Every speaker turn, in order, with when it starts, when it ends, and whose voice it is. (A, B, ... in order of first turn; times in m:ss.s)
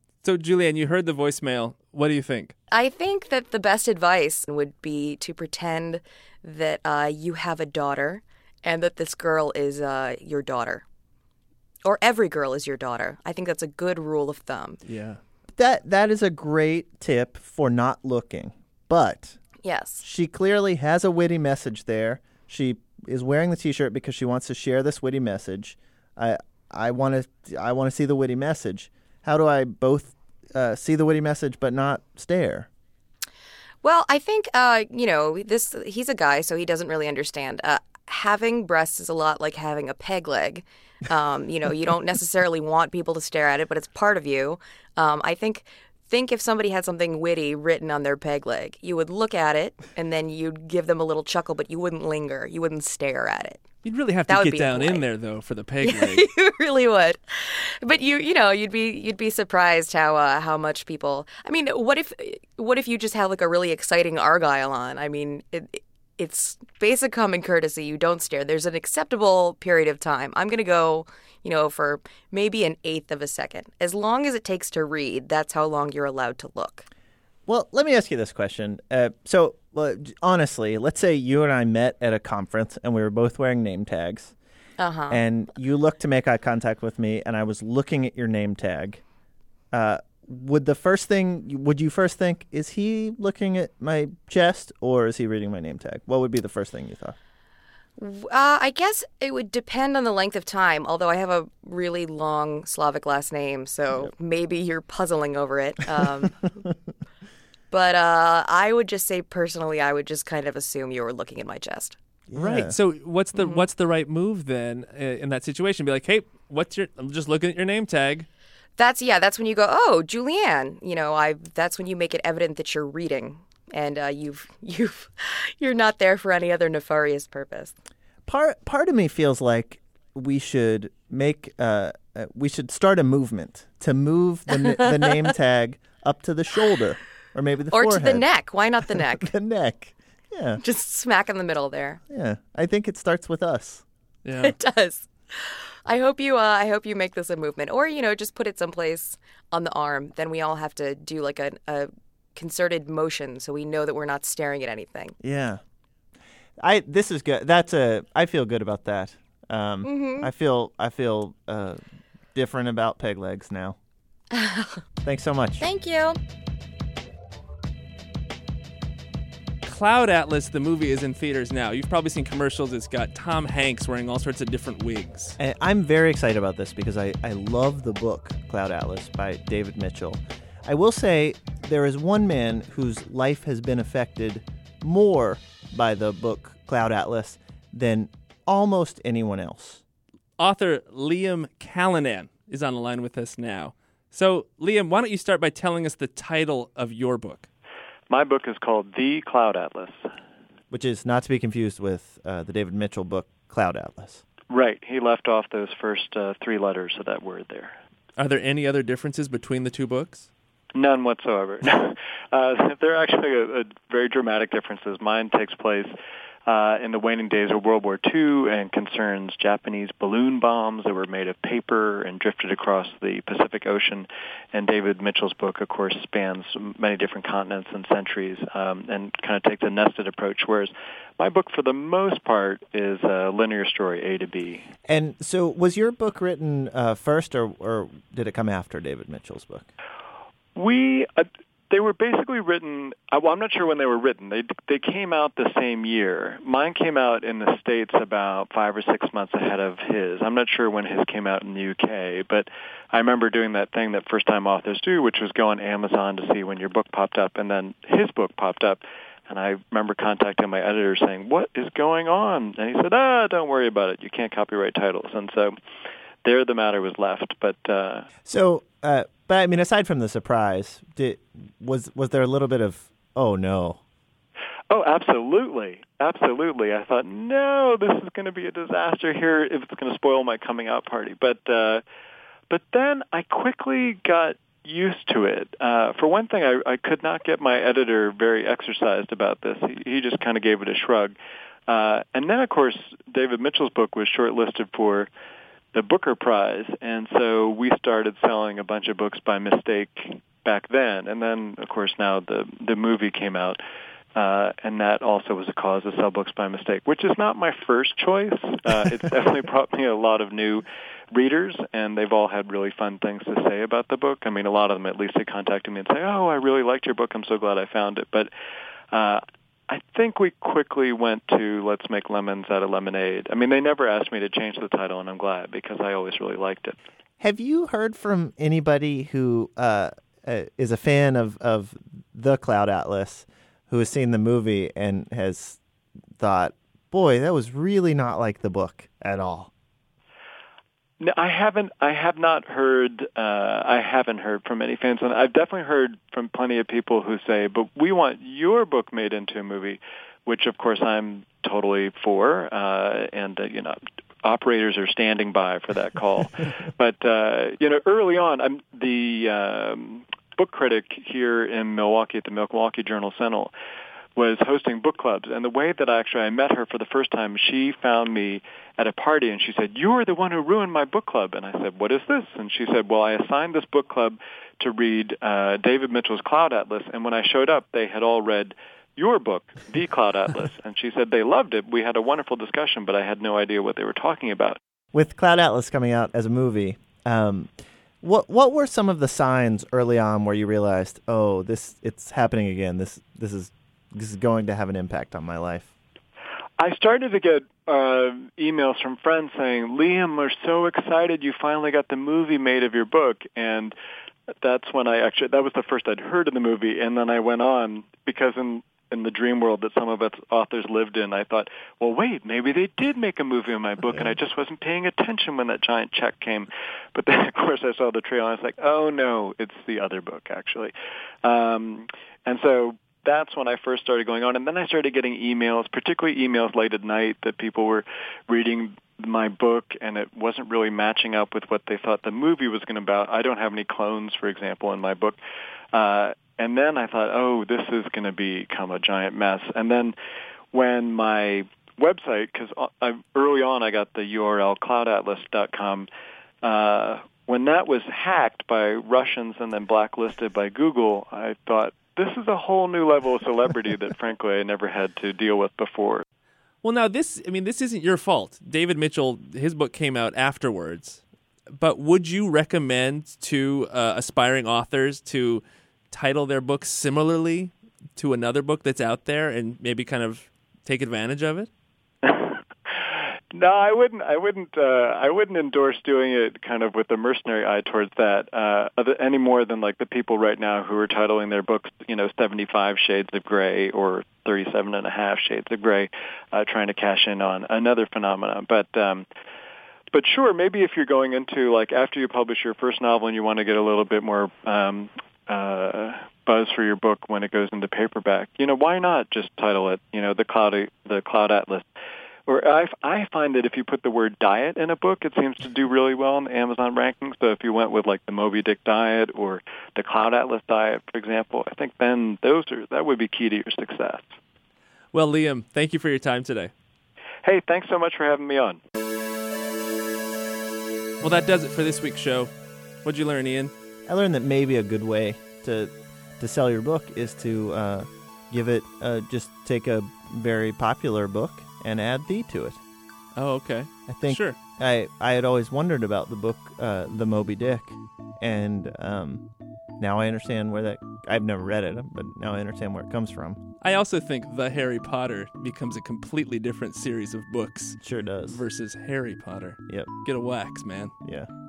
0:00.2-0:02.5 A
0:02.7-0:10.8 B
0:11.8-0:14.8 B
0:14.8-0:15.2 A
0:15.6-0:19.4 C
0:19.6-0:20.0 B
0:20.0-0:32.7 C
0:33.8-0:53.6 B
0:53.8-0:56.3 A
0:54.3-0:55.0 B
0:55.8-1:16.8 B
1:17.5-1:24.3 C
1:24.8-1:25.2 B
1:25.1-1:29.0 C
1:29.7-1:37.2 C
1:38.0-1:46.6 B
1:47.7-1:52.0 B
1:52.3-1:52.7 C
1:52.3-1:58.3 A
1:53.3-1:53.6 B
1:58.8-2:07.7 B
2:08.3-2:18.2 C
2:14.5-2:14.9 B
2:17.7-2:19.3 B
2:18.9-2:20.6 C
2:20.6-2:22.0 B
2:22.1-2:23.8 C
2:24.2-2:24.6 A
2:24.4-2:35.1 B
2:35.2-2:35.6 C
2:36.6-2:41.8 C
2:39.8-2:40.3 B
2:42.3-2:43.8 C
2:44.3-2:44.8 B
2:45.0-2:45.6 C
2:45.6-2:46.2 B
2:49.6-2:55.4 A
2:55.4-3:09.8 C
3:10.4-3:17.5 A
3:18.1-3:20.0 D
3:20.7-3:24.2 C
3:24.5-3:27.8 D
3:28.2-3:30.3 A
3:30.7-3:35.9 D
3:36.4-3:54.6 D
3:54.8-3:59.7 C
4:00.5-4:25.5 D
4:26.2-4:28.0 D
4:28.2-4:33.8 C
4:34.7-4:41.8 D
4:42.5-4:51.2 D
4:51.7-4:55.1 D
4:55.7-5:03.6 D
5:04.2-5:18.3 D
5:18.9-5:26.8 D
5:27.2-5:35.6 C
5:36.2-5:39.5 C
5:41.0-6:03.5 D
6:04.2-6:24.6 D
6:24.9-6:27.5 C
6:28.0-6:35.7 C
6:36.6-6:43.7 D
6:44.4-7:15.2 D
7:15.7-7:19.9 D
7:20.5-7:25.9 D
7:26.4-7:36.0 D
7:36.6-7:41.0 A
7:41.5-7:51.5 A
7:52.0-7:52.4 D
7:53.3-8:09.0 D
8:09.9-8:21.6 D
8:22.2-8:34.2 D
8:34.9-8:36.5 A
8:37.2-8:38.6 D
8:41.0-8:43.5 A
8:43.8-8:52.6 C
8:53.2-8:54.4 A
8:53.9-8:59.3 C
8:59.8-9:03.4 C
9:03.6-9:11.0 A
9:07.8-9:08.4 C
9:11.0-9:11.3 C